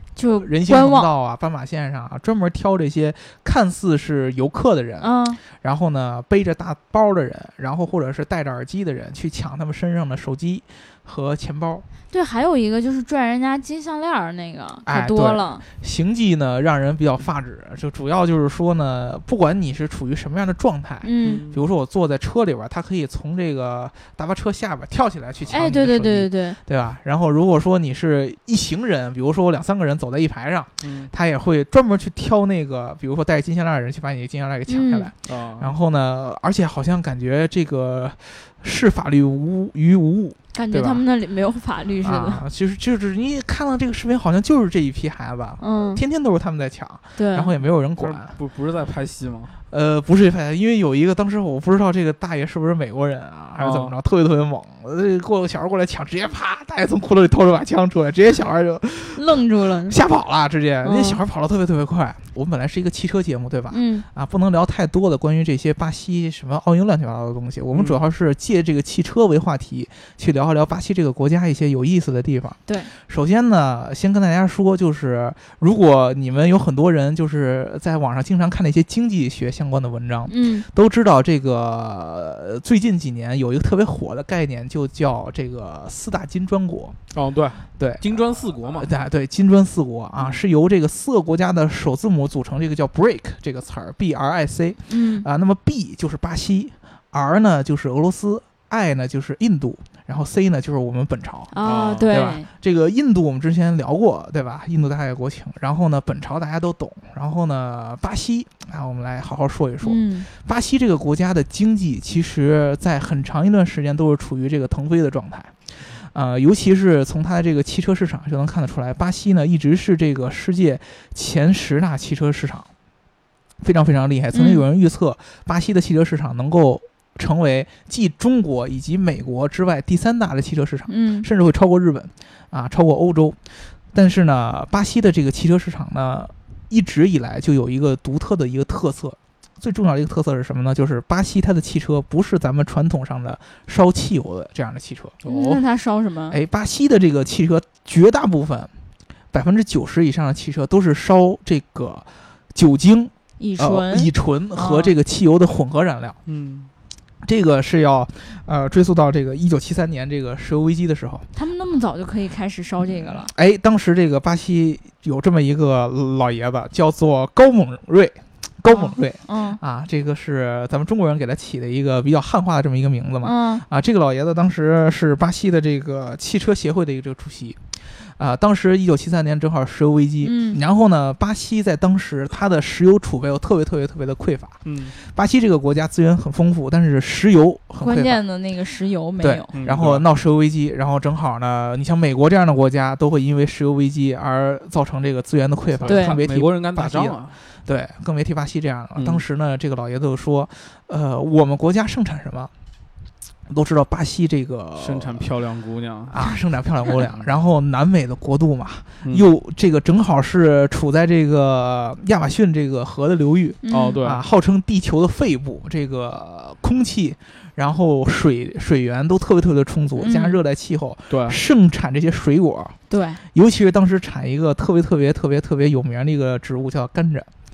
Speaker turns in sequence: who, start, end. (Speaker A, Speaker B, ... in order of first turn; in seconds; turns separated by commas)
Speaker A: 0.2-1.1, Speaker B: 0.4-11.9, Speaker A: 5.0-5.4, Speaker A: 12.1-15.6, Speaker B: 14.9-41.0, Speaker A: 21.0-21.4, Speaker C: 21.2-21.7, Speaker A: 25.5-26.6, Speaker C: 30.8-31.1, Speaker A: 34.7-35.1, Speaker C: 35.2-35.7, Speaker A: 40.5-42.4, Speaker B: 42.0-48.4, Speaker A: 45.6-46.0, Speaker A: 47.2-47.5, Speaker C: 48.0-49.5, Speaker B: 49.7-87.0, Speaker C: 53.6-53.9, Speaker A: 59.1-60.0, Speaker A: 60.8-61.2, Speaker A: 63.7-64.1, Speaker C: 67.7-68.0, Speaker A: 80.3-80.7, Speaker C: 87.1-88.9, Speaker B: 87.8-122.7, Speaker C: 90.2-90.4, Speaker A: 94.9-95.3, Speaker A: 101.5-102.5, Speaker C: 101.6-102.1, Speaker A: 109.8-110.3, Speaker B: 123.6-145.2, Speaker A: 124.3-124.6, Speaker A: 130.9-131.3, Speaker C: 145.2-145.6, Speaker A: 145.2-146.4, Speaker B: 146.3-148.7, Speaker B: 149.3-156.2, Speaker A: 153.4-155.0, Speaker C: 156.2-156.7, Speaker B: 157.2-161.3, Speaker A: 161.3-163.3, Speaker B: 162.8-188.2, Speaker A: 168.7-169.6, Speaker A: 173.2-173.6, Speaker A: 180.2-180.6, Speaker C: 184.6-184.9, Speaker A: 187.8-189.5, Speaker B: 189.2-202.5, Speaker C: 189.5-190.0, Speaker C: 195.7-197.4, Speaker A: 195.9-196.2, Speaker C: 199.0-199.2, Speaker B: 203.5-205.3, Speaker C: 204.8-206.3, Speaker B: 206.1-222.8, Speaker C: 207.0-207.2, Speaker A: 213.6-214.0, Speaker C: 213.7-214.2, Speaker A: 220.0-220.4, Speaker C: 221.1-221.4, Speaker A: 222.9-223.2, Speaker B: 223.3-227.3